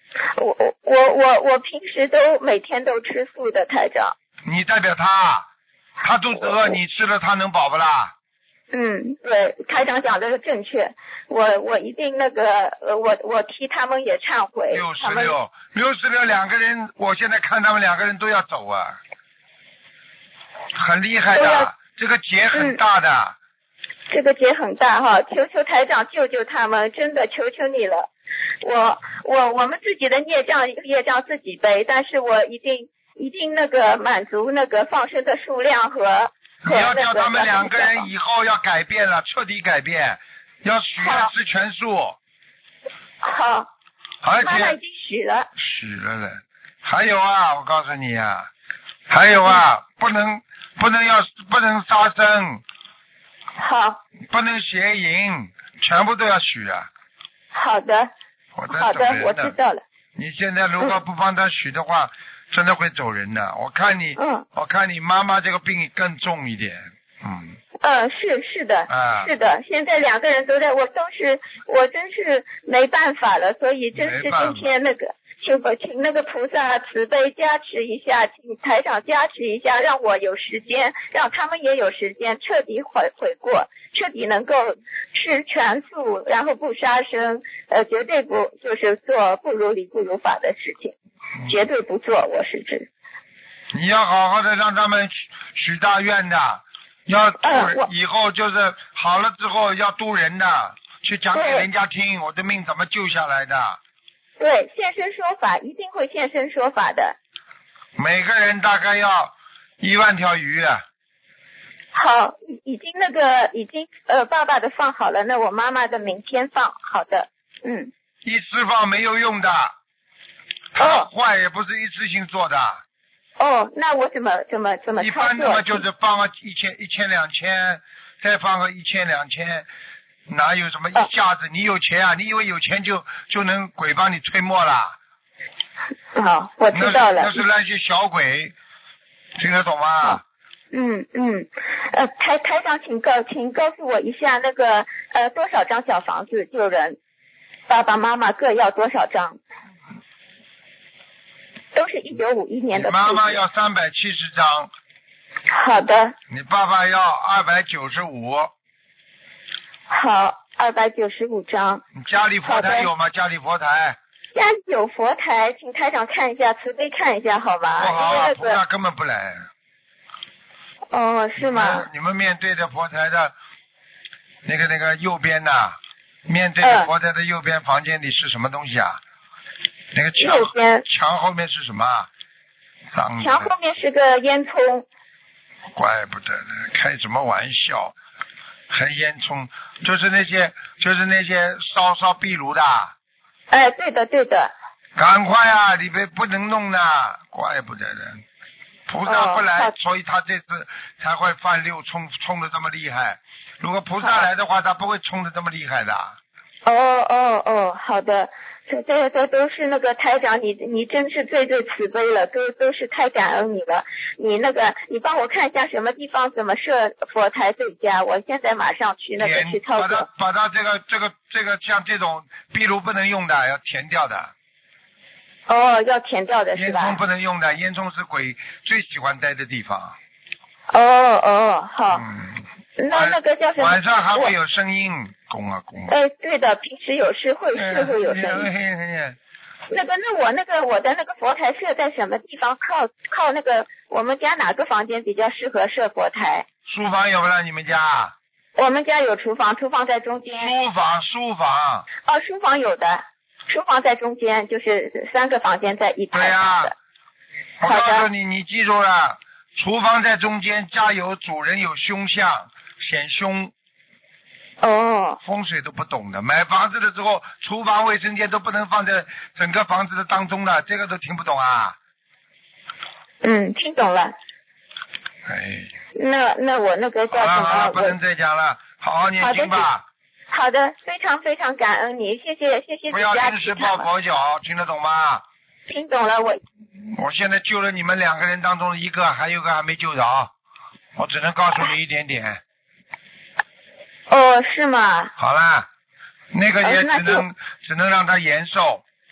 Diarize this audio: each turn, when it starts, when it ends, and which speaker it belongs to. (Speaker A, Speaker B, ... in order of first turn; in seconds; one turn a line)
Speaker A: 0.2-4.1
Speaker B: 4.5-5.5
Speaker B: 6.0-8.1
Speaker A: 8.7-15.3
Speaker B: 14.7-19.0
Speaker B: 20.7-23.4
Speaker A: 21.3-21.7
Speaker A: 22.5-22.8
Speaker A: 24.1-28.1
Speaker A: 28.6-38.1
Speaker B: 36.6-42.2
Speaker A: 41.0-41.3
Speaker A: 43.2-43.7
Speaker B: 44.2-44.8
Speaker A: 44.4-45.5
Speaker B: 45.5-48.5
Speaker B: 49.1-52.6
Speaker A: 53.6-54.0
Speaker B: 54.3-56.9
Speaker A: 57.5-58.1
Speaker B: 58.5-59.5
Speaker A: 58.7-59.8
Speaker B: 60.1-67.5
Speaker A: 64.2-64.5
Speaker A: 67.8-90.9
Speaker B: 68.9-69.3
Speaker B: 73.9-74.7
Speaker A: 91.5-92.9
Speaker B: 93.7-103.8
Speaker A: 97.4-97.9
Speaker A: 101.3-101.7
Speaker A: 104.4-107.2
Speaker B: 108.0-110.8
Speaker A: 111.9-117.9
Speaker B: 118.2-119.7
Speaker B: 120.7-122.8
Speaker A: 120.8-121.1
Speaker A: 123.4-125.8
Speaker B: 125.0-129.7
Speaker B: 130.3-134.9
Speaker A: 136.1-137.4
Speaker B: 136.7-138.5
Speaker B: 139.4-140.2
Speaker A: 140.7-147.0
Speaker A: 147.7-149.4
Speaker A: 151.7-153.4
Speaker B: 152.7-154.7
Speaker A: 155.5-156.1
Speaker B: 156.3-158.5
Speaker A: 159.9-161.8
Speaker B: 161.9-164.0
Speaker A: 162.4-162.9
Speaker A: 164.3-168.6
Speaker B: 167.8-169.5
Speaker A: 170.9-171.8
Speaker B: 171.4-173.3
Speaker B: 174.4-179.0
Speaker A: 176.6-176.9
Speaker B: 179.9-182.1
Speaker A: 180.2-180.8
Speaker B: 182.9-183.5
Speaker A: 183.2-184.9
Speaker B: 185.8-187.9
Speaker B: 188.7-192.9
Speaker A: 193.5-194.5
Speaker B: 194.9-198.2
Speaker B: 198.9-206.2
Speaker A: 199.1-199.7
Speaker A: 206.7-220.1
Speaker B: 219.2-224.3
Speaker A: 225.5-227.0
Speaker B: 226.5-229.9
Speaker A: 230.7-232.1
Speaker B: 231.9-232.3
Speaker A: 232.8-234.3
Speaker B: 232.9-235.9
Speaker A: 235.9-238.5
Speaker B: 237.5-239.2
Speaker A: 239.7-246.4
Speaker B: 246.7-248.1
Speaker A: 248.6-250.5
Speaker B: 250.4-251.9
Speaker A: 252.1-256.7
Speaker B: 256.1-256.7
Speaker B: 257.6-263.5
Speaker A: 257.6-258.1
Speaker A: 264.6-265.2
Speaker B: 265.2-271.8
Speaker A: 273.2-274.1
Speaker B: 275.2-275.7
Speaker A: 275.9-277.9
Speaker B: 277.1-279.8
Speaker A: 279.2-279.7
Speaker A: 280.3-283.9
Speaker B: 282.9-285.2
Speaker A: 285.7-286.4
Speaker B: 286.9-290.3
Speaker B: 290.9-292.4
Speaker A: 294.1-295.1
Speaker B: 295.2-295.7
Speaker B: 296.3-298.8
Speaker A: 296.6-297.2